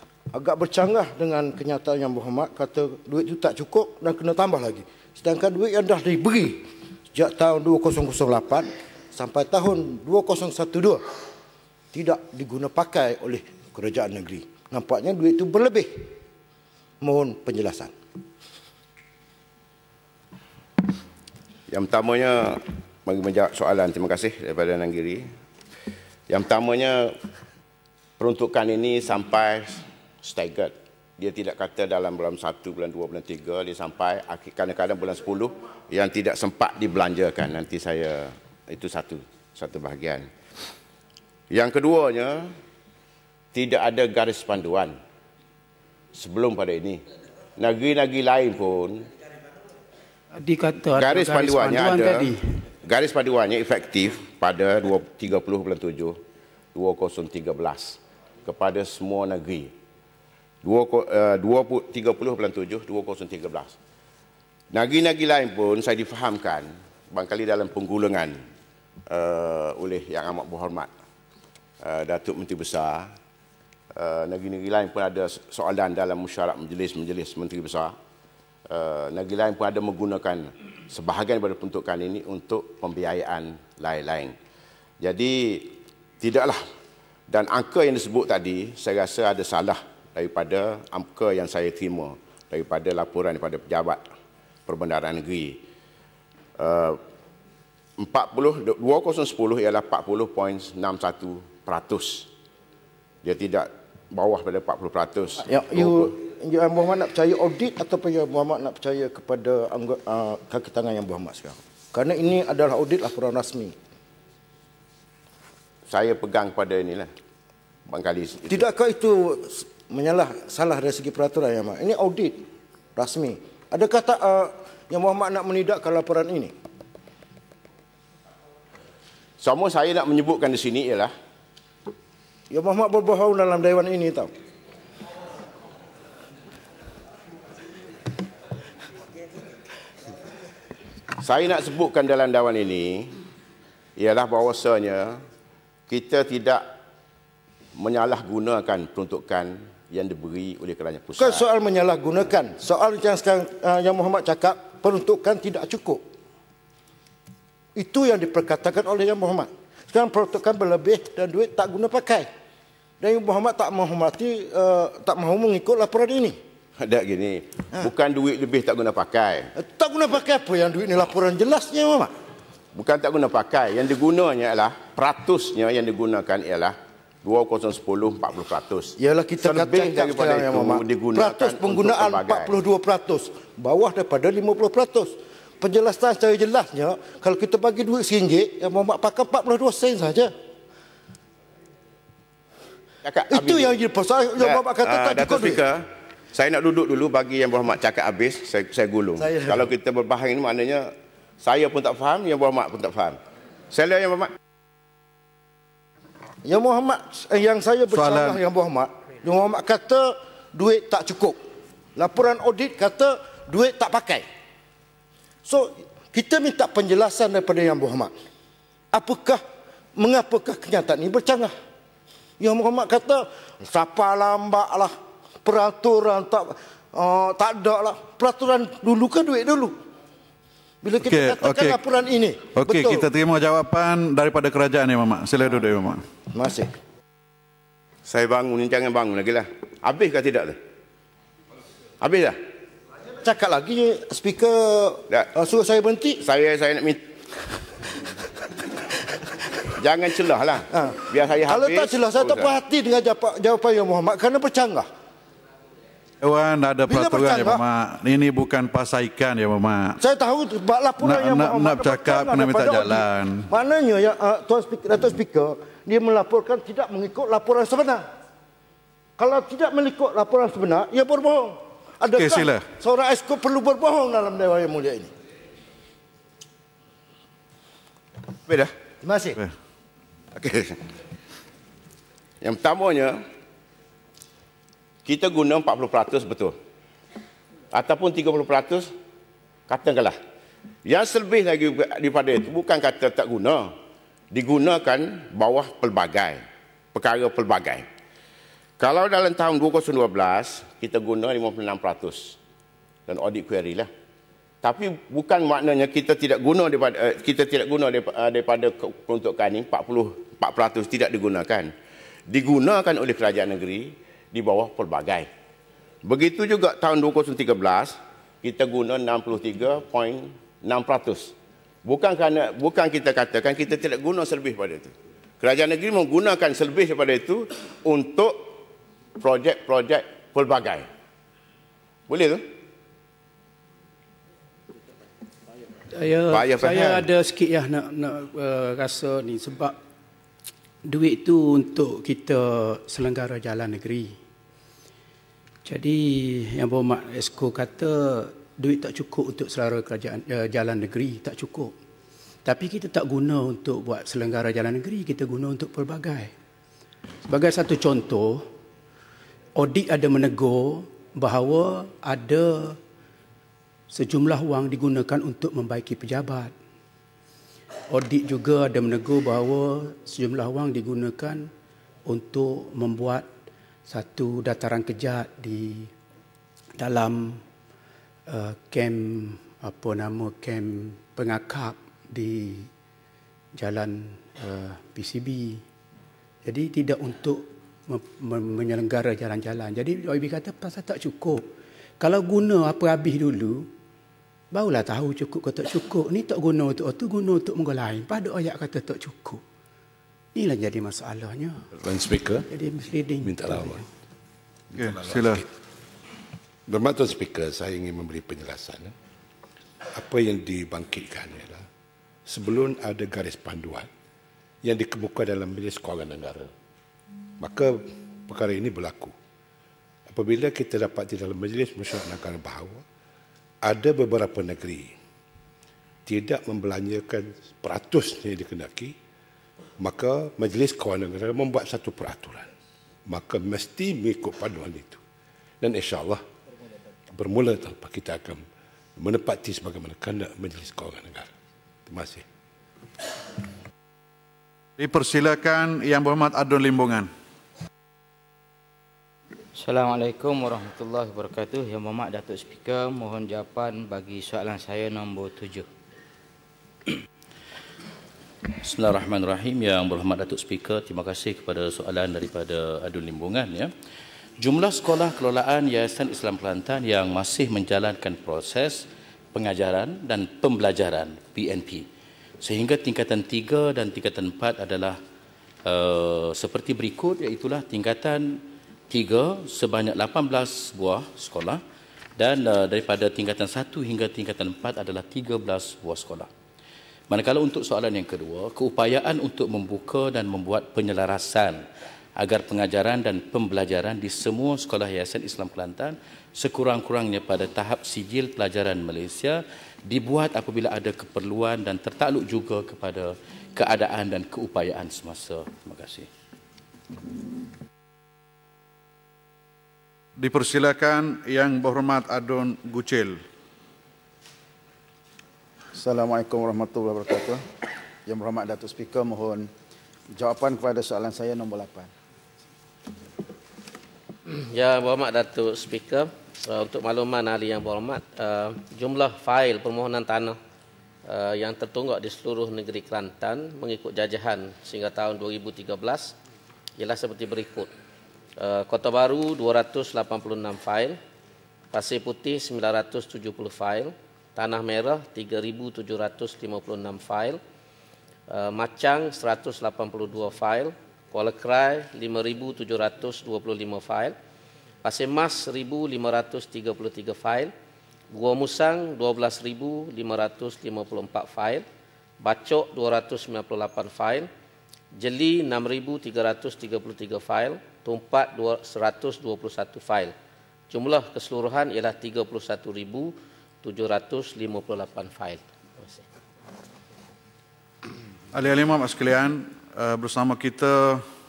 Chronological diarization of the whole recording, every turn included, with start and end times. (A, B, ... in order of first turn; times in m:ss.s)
0:00.3-0:11.0 A
0:11.9-0:16.1 A
0:17.0-0:17.9 A
0:21.7-0:25.3 B
0:26.3-0:27.2 B
0:28.2-0:40.3 B
0:41.5-0:42.6 B
0:43.5-0:45.0 B
0:46.1-0:47.0 B
0:47.6-0:49.1 B
0:50.4-0:52.4 C
0:51.0-0:52.3 B
0:52.8-0:56.2 B
0:56.7-0:59.7 B
1:00.6-1:03.8 B
1:04.7-1:08.4 B
1:09.1-1:10.9 B
1:11.8-1:13.1 B
1:14.0-1:18.0 B
1:18.7-1:24.3 B
1:25.0-1:26.6 B
1:27.3-1:34.0 B
1:34.7-1:35.6 B
1:36.6-1:37.0 B
1:38.0-1:42.3 B
1:43.2-1:46.1 B
1:45.4-1:53.8 A
1:55.9-1:57.1 B
1:57.9-1:58.7 B
1:58.5-2:02.4 A
2:03.0-2:06.5 A
2:09.4-2:11.1 B
2:12.5-2:14.3 A
2:21.2-2:23.2 B
2:24.0-2:25.2 B
2:25.9-2:26.7 B
2:27.8-2:31.5 B
2:31.2-2:36.0 A
2:37.8-2:42.3 A
2:43.0-2:46.4 A
2:46.8-2:49.5 B
2:49.6-2:52.1 A
2:52.7-3:02.6 B
2:59.0-3:10.3 A
3:13.0-3:23.2 B
3:13.3-3:15.6 A
3:19.2-3:19.7 A
3:23.7-3:24.3 B
3:26.4-3:31.4 A
3:27.9-3:28.4 D
3:32.0-3:34.2 A
3:35.4-3:38.1 A
3:38.9-3:39.4 A
3:40.0-3:41.5 A
3:42.4-3:49.8 A
3:50.8-3:53.1 A
3:51.0-3:51.8 D
3:52.5-3:56.0 D
3:56.3-3:56.7 A
3:58.1-4:00.6 B
4:02.0-4:02.4 B
4:03.2-4:06.2 A
4:06.2-4:07.2 B
4:09.8-4:12.6 B
4:10.7-4:14.9 A
4:16.2-4:20.0 D
4:16.9-4:17.6 A
4:20.0-4:28.1 A
4:21.0-4:23.5 D
4:29.2-4:35.1 A
4:32.2-4:32.7 D
4:39.0-4:39.4 A
4:40.4-4:40.8 B
4:42.4-4:43.2 B
4:45.0-4:46.6 B
4:47.7-4:48.9 B
4:49.7-4:50.2 B
4:50.9-4:53.7 B
4:54.3-4:56.4 B
4:56.9-4:57.8 B
4:58.8-5:02.4 B
5:03.1-5:03.9 B
5:04.6-5:11.7 B
5:12.3-5:15.3 B
5:16.0-5:21.3 B
5:21.8-5:28.6 B
5:29.2-5:30.9 B
5:32.1-5:32.4 B
5:36.0-5:39.8 C
5:36.3-5:37.0 B
5:40.9-5:44.2 C
5:45.7-5:51.8 C
5:52.4-5:56.3 C
5:57.3-5:58.5 C
5:59.6-6:02.8 C
6:03.9-6:06.5 C
6:07.9-6:11.5 C
6:12.1-6:13.3 C
6:13.9-6:15.9 C
6:16.8-6:17.4 C
6:18.3-6:22.7 C
6:23.6-6:25.6 C
6:26.4-6:31.4 C
6:32.0-6:33.7 C
6:34.5-6:39.4 C
6:40.4-6:41.7 C
6:41.7-6:42.5 E
6:42.5-6:43.8 C
6:43.2-6:43.8 E
6:44.7-6:45.4 E
6:44.8-6:45.4 D
6:46.7-6:48.9 E
6:49.9-6:51.6 E
6:52.3-6:53.9 E
6:54.6-6:56.5 E
6:57.4-6:59.1 E
7:00.1-7:02.8 E
7:03.6-7:04.9 E
7:06.1-7:08.9 E
7:09.8-7:12.5 E
7:13.1-7:15.0 E
7:15.6-7:16.2 E
7:17.1-7:18.4 E
7:19.0-7:21.3 E
7:21.9-7:22.2 E
7:24.8-7:27.1 D
7:29.6-7:35.6 F
7:38.6-7:43.7 G
7:44.4-7:51.9 G
7:52.4-7:55.0 G
7:55.7-8:01.6 G
8:02.2-8:06.3 G
8:07.1-8:11.6 G
8:12.2-8:26.1 G
8:30.2-8:33.2 D
8:35.8-8:37.4 H
8:38.1-8:39.4 H
8:40.2-8:41.9 H
8:44.3-8:50.4 I
8:51.1-8:56.2 I
8:56.8-8:57.7 I
8:58.4-9:01.0 I
9:01.7-9:07.4 I
9:08.3-9:14.2 I
9:14.8-9:17.5 I
9:18.1-9:21.6 I
9:22.2-9:24.3 I
9:25.0-9:30.1 I
9:30.7-9:36.1 I
9:38.3-9:41.1 D